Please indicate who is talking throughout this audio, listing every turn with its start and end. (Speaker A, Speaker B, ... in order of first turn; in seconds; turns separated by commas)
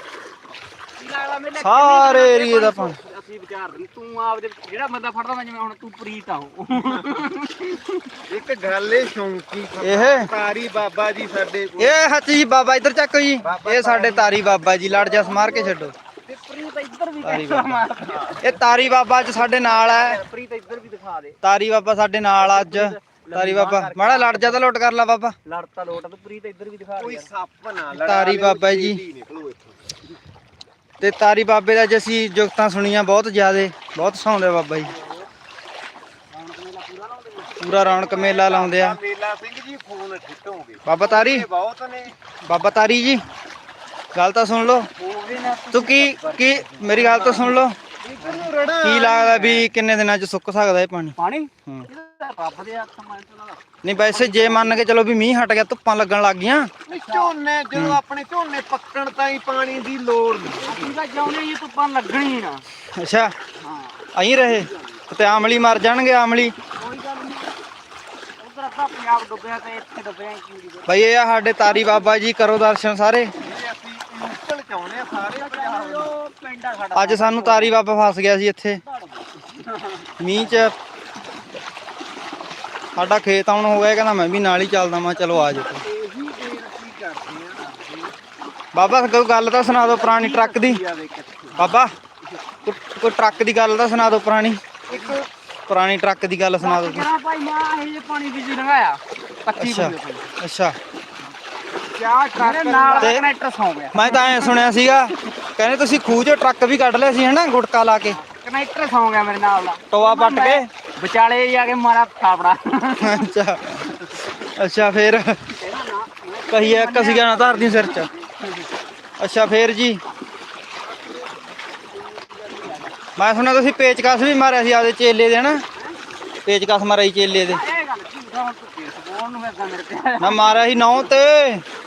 Speaker A: 1.0-8.1, Speaker B: 1.6-3.0, Speaker C: 8.3-12.0, Speaker B: 9.8-10.3, Speaker B: 11.8-15.9, Speaker C: 13.4-15.2, Speaker A: 15.1-18.8, Speaker B: 17.2-20.2, Speaker C: 18.0-18.4, Speaker A: 19.5-21.4, Speaker B: 21.4-25.4, Speaker A: 22.4-24.6, Speaker A: 25.5-27.3, Speaker C: 27.0-29.9, Speaker B: 28.0-29.0, Speaker B: 31.0-34.9, Speaker A: 34.9-35.3, Speaker A: 36.3-38.3, Speaker B: 37.6-39.0, Speaker C: 38.0-42.2, Speaker B: 40.9-41.5, Speaker B: 42.5-43.2, Speaker B: 44.1-44.9, Speaker A: 45.0-47.6, Speaker B: 45.7-47.8, Speaker C: 48.0-49.5, Speaker B: 48.8-51.9, Speaker A: 51.2-54.8, Speaker B: 53.8-56.7, Speaker C: 56.9-61.0, Speaker A: 56.9-57.3, Speaker A: 60.6-62.6, Speaker B: 63.0-63.3, Speaker A: 63.6-65.0, Speaker B: 64.2-66.5, Speaker A: 66.8-67.6, Speaker A: 68.4-71.1, Speaker B: 70.9-73.3, Speaker A: 71.6-72.2, Speaker C: 73.4-76.1, Speaker A: 75.3-77.8, Speaker B: 76.9-78.8, Speaker A: 78.8-80.7, Speaker B: 80.2-80.7, Speaker B: 83.0-85.8, Speaker C: 85.4-88.1, Speaker B: 88.7-90.8, Speaker C: 90.0-91.7, Speaker B: 91.6-91.9, Speaker B: 92.7-94.7, Speaker C: 94.9-95.3, Speaker B: 95.7-97.1, Speaker A: 96.6-100.3, Speaker B: 99.6-100.8, Speaker C: 101.8-103.2, Speaker A: 102.0-105.1, Speaker B: 103.0-103.2, Speaker B: 103.9-108.2, Speaker A: 108.0-113.3, Speaker B: 109.9-110.7, Speaker B: 113.0-115.5, Speaker A: 115.6-118.7, Speaker B: 116.5-118.1, Speaker B: 119.2-120.0, Speaker A: 120.8-123.0, Speaker B: 123.2-125.6, Speaker B: 126.5-127.6, Speaker A: 127.4-130.8, Speaker B: 130.2-131.6